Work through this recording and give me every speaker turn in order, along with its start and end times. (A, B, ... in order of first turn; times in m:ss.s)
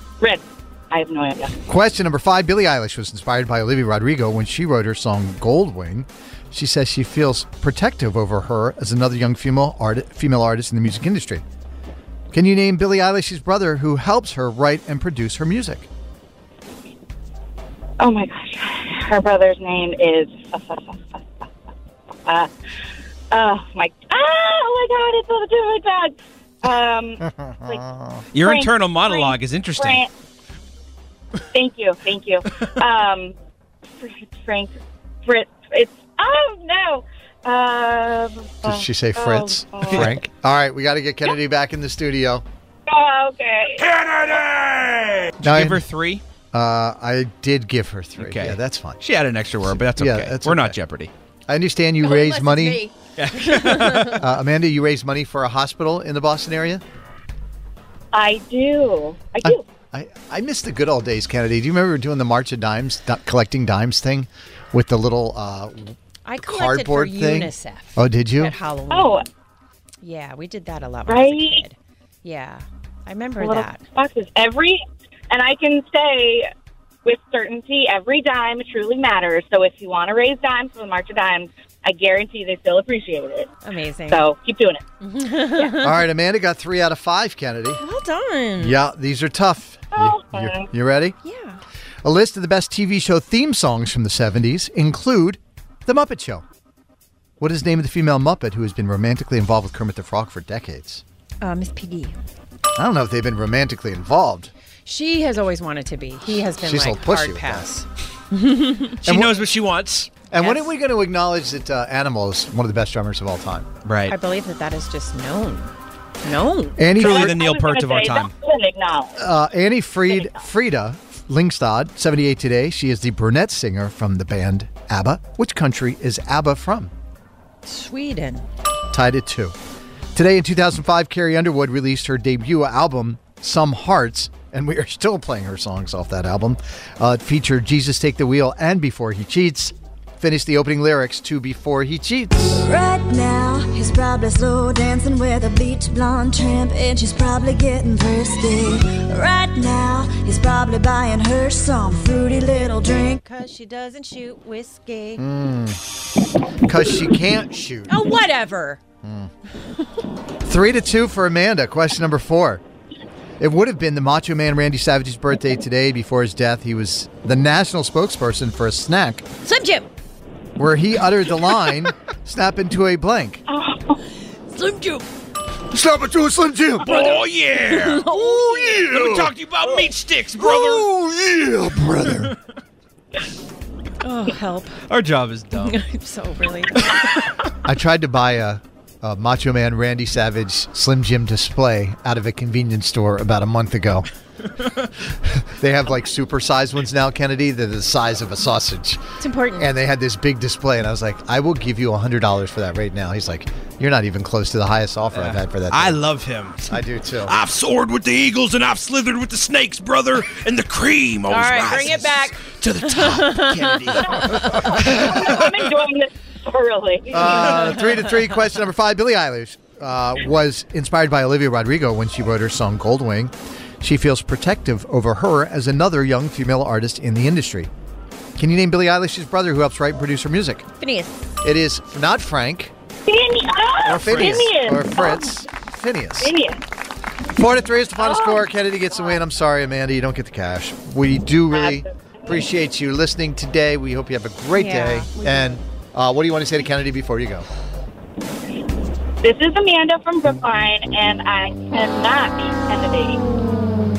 0:00.2-0:01.6 A
0:01.7-0:11.4 B
0:12.3-0:15.9 B
0:18.0-0:21.5 A
0:23.3-0:27.9 A
0:27.3-0:28.2 B
0:28.3-0:30.0 C
0:28.4-0:30.1 A
0:31.5-0:33.4 A
0:34.0-0:40.1 A
0:38.6-0:42.4 B
0:39.9-0:40.2 C
0:42.9-0:43.9 A
0:45.4-0:46.2 C
0:45.4-0:45.9 B
0:46.5-0:49.0 B
0:48.2-0:51.1 C
0:49.7-0:50.8 B
0:51.5-0:52.9 B
0:52.0-0:54.2 D
0:53.2-0:54.2 C
0:54.1-0:56.8 B
0:58.1-0:59.6 A
0:59.4-1:08.6 B
1:06.2-1:09.2 D
1:08.9-1:09.2 A
1:10.0-1:13.9 D
1:11.1-1:11.6 A
1:13.4-1:16.5 A
1:17.0-1:23.6 A
1:23.6-1:24.3 D
1:24.1-1:24.8 A
1:25.0-1:26.1 D
1:25.4-1:25.8 A
1:25.8-1:27.8 B
1:27.8-1:28.8 D
1:28.6-1:31.2 B
1:29.9-1:30.7 A
1:31.2-1:31.6 D
1:32.0-1:36.4 B
1:37.4-1:41.0 B
1:41.4-1:42.2 D
1:42.8-1:44.5 B
1:44.8-1:49.0 D
1:46.5-1:47.7 B
1:49.0-1:50.3 C
1:49.0-1:49.4 B
1:50.3-1:53.7 B
1:50.4-1:50.7 D
1:53.8-1:54.2 C
1:54.1-1:55.7 D
1:56.2-1:56.9 D
1:56.8-1:57.4 B
1:56.9-1:58.3 C
1:57.0-1:59.3 A
1:59.2-2:06.9 B
2:00.1-2:00.5 A
2:07.6-2:08.5 D
2:08.9-2:09.6 B
2:10.2-2:22.7 B
2:22.5-2:33.2 E
2:33.2-2:35.2 D
2:35.2-2:35.8 B
2:36.6-2:38.0 B
2:37.9-2:38.8 D
2:39.0-2:39.3 B
2:40.4-2:42.6 B
2:43.4-2:49.3 B
2:49.4-2:49.9 D
2:50.6-2:53.4 B
2:53.5-2:54.0 A
2:54.5-2:55.0 D
2:55.7-2:57.1 B
2:56.8-3:00.9 C
2:56.9-2:58.8 D
2:58.2-2:59.3 B
3:00.4-3:02.3 B
3:04.0-3:04.8 D
3:04.9-3:05.8 C
3:05.5-3:06.8 D
3:07.6-3:14.1 B
3:15.2-3:26.0 B
3:19.2-3:19.7 D
3:25.1-3:35.1 C
3:26.7-3:27.4 B
3:31.3-3:34.6 D
3:34.5-3:35.3 B
3:34.9-3:37.7 A
3:37.1-3:47.7 B
3:48.4-3:50.7 B
3:50.8-3:51.4 D
3:51.4-3:52.7 B
3:53.1-3:55.4 A
3:53.8-3:56.3 B
3:56.2-3:56.6 A
3:57.3-4:07.5 B
3:58.0-3:59.2 A
4:01.5-4:02.4 A
4:04.6-4:05.6 D
4:09.2-4:13.3 A